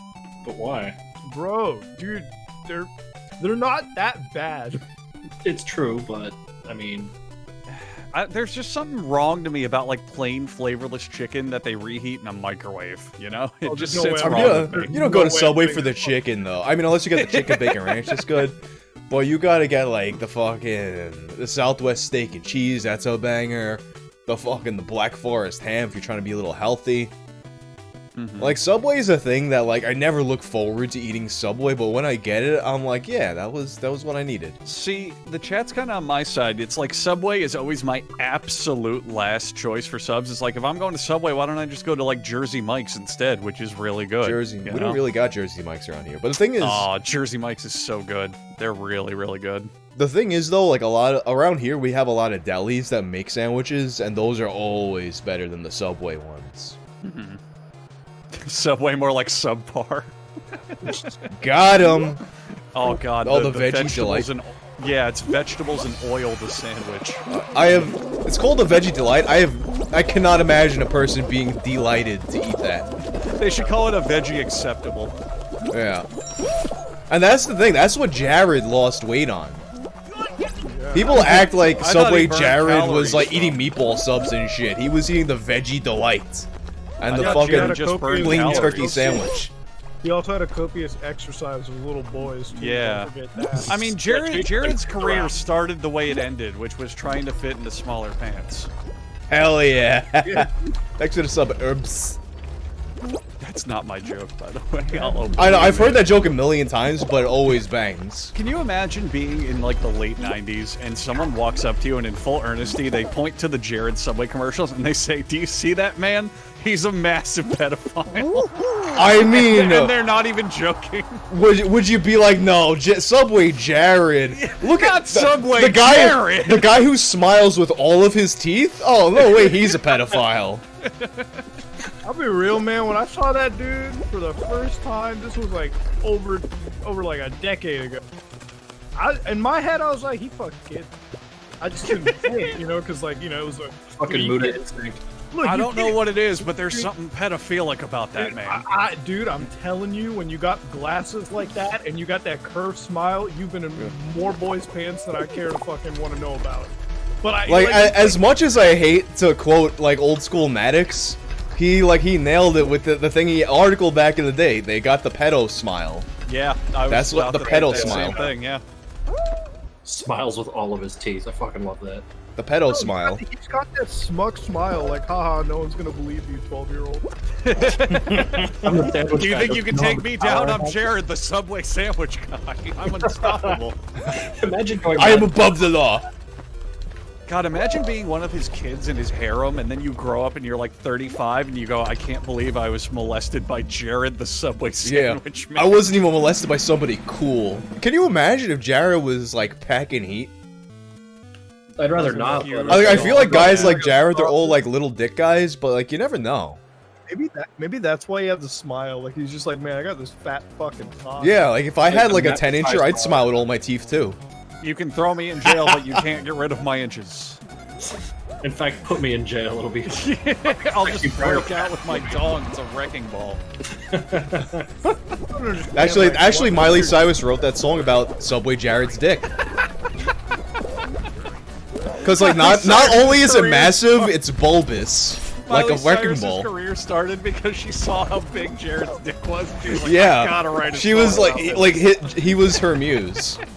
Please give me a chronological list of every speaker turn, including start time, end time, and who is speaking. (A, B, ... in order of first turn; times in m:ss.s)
0:00.4-0:01.0 A
0:01.2-0:04.8 B
0:05.4-0:07.1 A
0:07.7-0:14.9 C
0:13.6-0:16.1 B
0:14.2-0:27.1 D
0:17.2-0:18.2 C
0:28.1-0:28.6 C
0:28.4-0:34.6 D
0:34.6-0:45.0 C
0:44.2-0:46.9 D
0:46.6-0:49.7 C
0:49.9-0:56.8 D
0:57.0-0:57.4 C
0:58.3-1:00.1 C
1:00.8-1:01.1 C
1:01.3-1:02.2 D
1:02.7-1:07.2 C
1:02.8-1:04.3 D
1:07.3-1:12.9 D
1:13.2-1:15.2 C
1:15.7-1:16.0 D
1:17.1-1:19.6 D
1:20.6-1:21.2 B
1:20.9-1:29.5 D
1:21.0-1:23.6 C
1:27.1-1:29.2 C
1:27.1-1:29.3 B
1:30.0-1:34.7 B
1:32.5-1:33.1 C
1:33.6-1:38.7 C
1:34.7-1:35.3 A
1:39.3-1:42.2 D
1:43.4-1:46.1 C
1:44.9-1:45.3 B
1:45.4-1:48.3 D
1:48.3-2:01.2 C
1:58.9-1:59.9 D
2:01.3-2:10.6 D
2:04.3-2:06.7 C
2:09.2-2:09.7 C
2:10.8-2:11.4 C
2:12.0-2:18.0 B
2:19.0-2:20.9 B
2:21.6-2:24.6 B
2:21.9-2:22.4 C
2:24.0-2:25.0 A
2:25.3-2:26.9 B
2:25.4-2:28.7 C
2:28.2-2:38.2 B
2:37.4-2:46.1 D
2:46.2-2:48.6 C
2:46.9-2:48.2 D
2:47.7-2:48.2 A
2:49.8-2:52.1 A
2:52.4-2:53.2 D
2:52.7-2:57.1 B
2:57.4-3:03.8 C
2:57.9-3:00.8 A
3:03.0-3:03.6 A
3:04.1-3:05.5 A
3:04.9-3:06.0 D
3:07.3-3:15.8 C
3:14.8-3:20.3 D
3:21.8-3:24.0 A
3:21.9-3:23.8 C
3:22.7-3:26.6 D
3:23.6-3:24.6 B
3:27.1-3:31.5 B
3:31.2-3:34.2 D
3:31.8-3:33.3 A
3:34.6-3:37.4 C
3:35.5-3:36.0 D
3:38.4-3:42.2 A
3:39.9-3:43.4 C
3:43.8-3:44.7 A
3:45.3-3:47.1 B
3:45.7-3:49.3 D
3:52.0-3:56.5 D
3:52.0-3:54.1 C
3:55.4-4:01.9 C
3:59.8-4:03.4 D